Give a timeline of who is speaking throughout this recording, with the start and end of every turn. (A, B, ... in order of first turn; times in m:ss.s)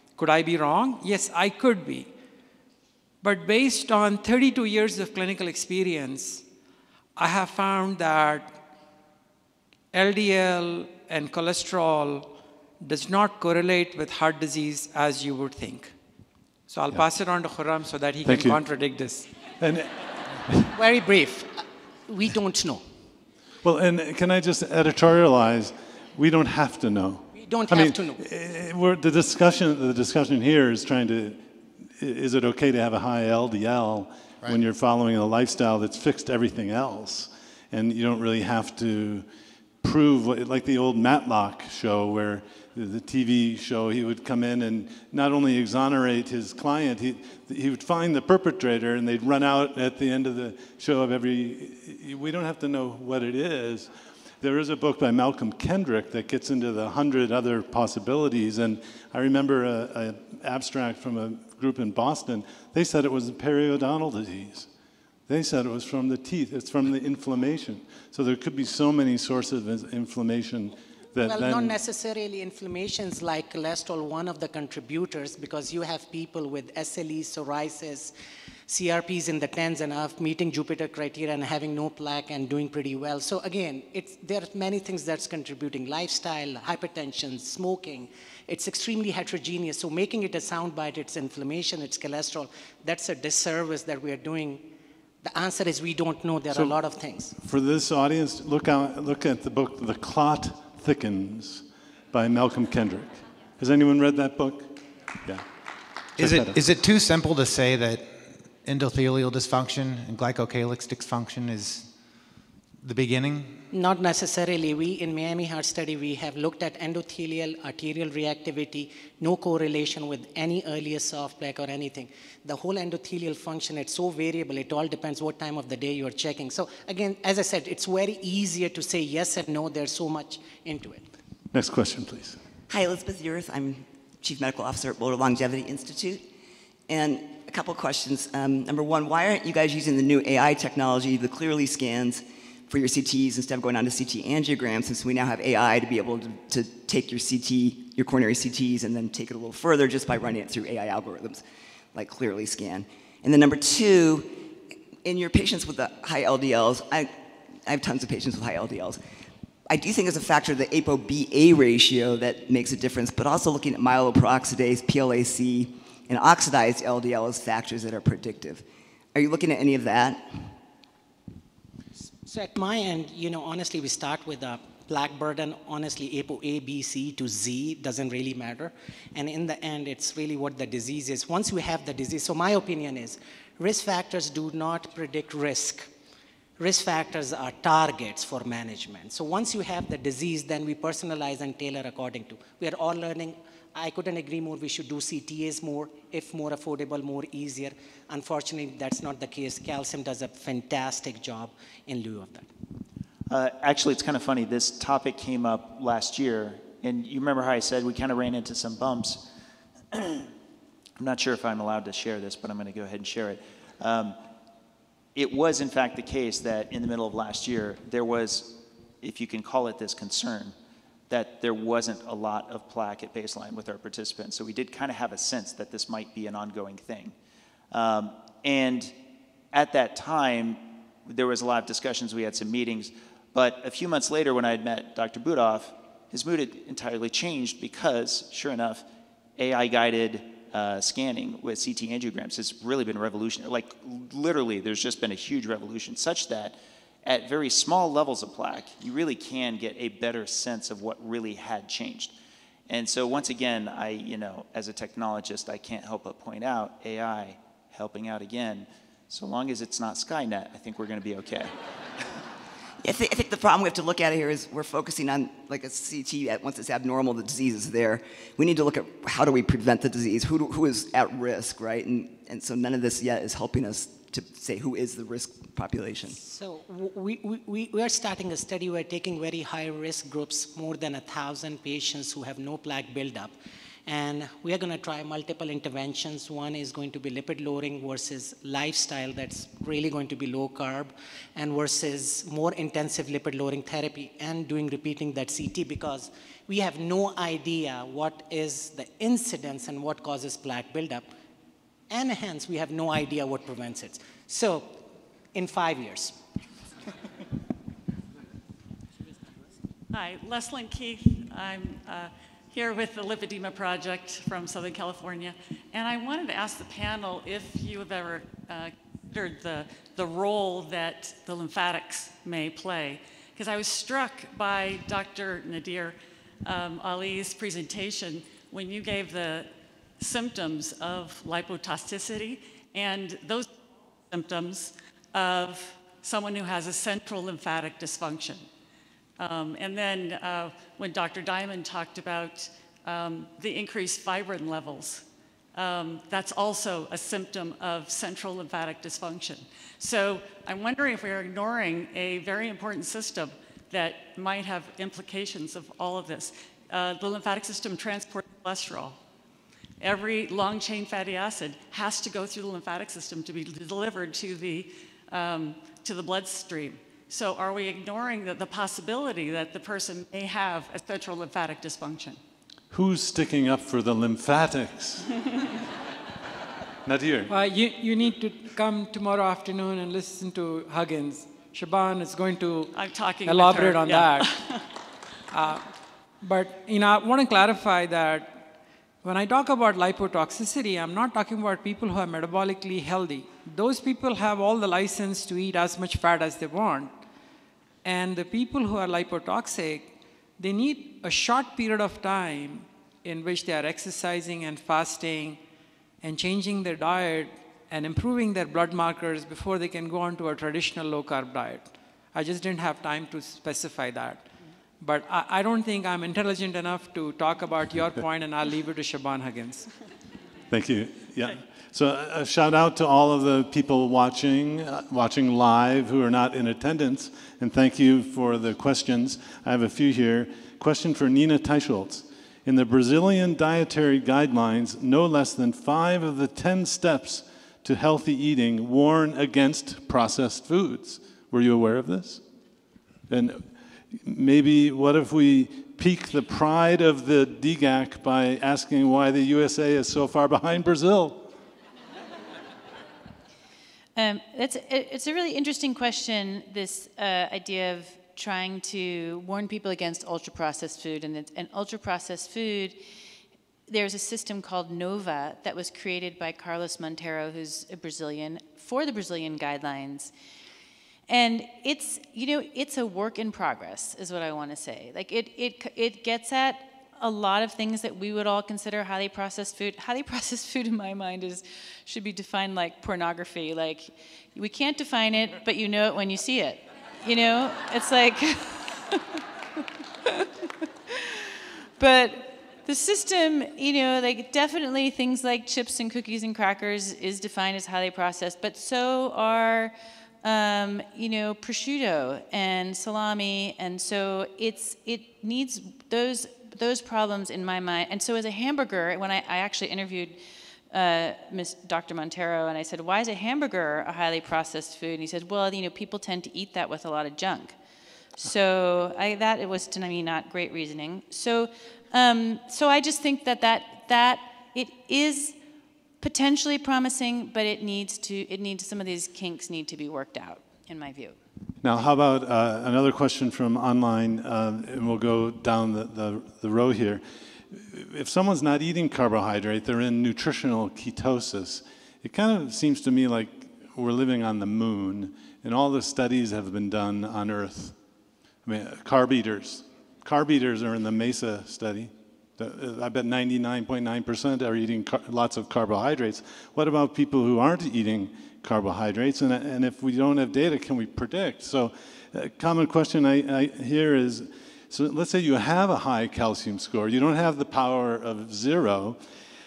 0:00.2-0:02.1 A
0:03.2-0:06.4 A
0:07.2-0:08.6 A
0:09.9-0:16.0 A
0:16.7-0:19.3 A
0:18.2-0:18.6 B
0:19.6-0:19.9 B
0:20.5-0:20.7 B
0:20.8-0:22.8 C
0:23.6-0:31.4 B
0:27.3-0:28.2 C
0:31.9-0:39.3 B
0:39.8-0:53.9 B
0:54.4-1:04.7 B
1:05.3-1:11.8 B
1:11.2-1:18.1 C
1:18.7-1:34.7 C
1:35.2-1:37.3 C
1:36.5-1:36.8 B
1:37.4-1:45.5 B
1:46.2-1:46.6 B
1:46.2-1:51.9 D
1:52.8-1:53.6 D
1:53.7-2:11.0 C
2:11.5-2:12.4 B
2:12.7-2:16.3 E
2:16.9-2:31.4 E
2:31.9-2:34.5 E
2:35.0-2:39.0 E
2:39.7-2:50.6 E
2:52.2-3:05.9 C
3:06.6-3:22.5 C
3:23.3-3:29.3 F
3:29.9-3:30.3 F
3:31.0-3:34.2 F
3:35.2-3:40.5 F
3:41.1-3:47.1 F
3:47.7-3:48.9 F
3:49.5-3:58.8 F
3:59.4-4:12.2 F
4:12.7-4:21.5 F
4:22.8-4:36.2 E
4:36.1-4:43.3 C
4:43.9-5:01.1 C
5:01.9-5:04.8 C
5:05.3-5:06.2 C
5:09.9-5:33.6 G
5:34.1-5:38.4 G
5:39.2-5:59.0 G
5:59.8-6:12.2 G
6:12.7-6:15.1 B
6:16.8-6:17.3 B
6:17.3-6:22.7 A
6:22.7-6:24.6 G
6:23.2-6:24.3 A
6:25.3-6:25.6 A
6:26.2-6:28.4 A
6:29.0-6:36.9 A
6:37.8-6:45.4 A
6:46.0-6:54.3 A
6:54.8-6:59.7 A
7:00.5-7:22.2 B
7:23.1-7:31.3 B
7:34.0-7:42.8 H
7:43.7-7:50.1 H
7:51.1-8:09.2 H
8:10.0-8:10.3 H
8:10.9-8:30.2 H
8:30.7-8:37.6 H
8:38.2-8:45.4 H
8:46.0-8:51.2 H
8:51.6-9:07.8 B
9:08.4-9:29.0 B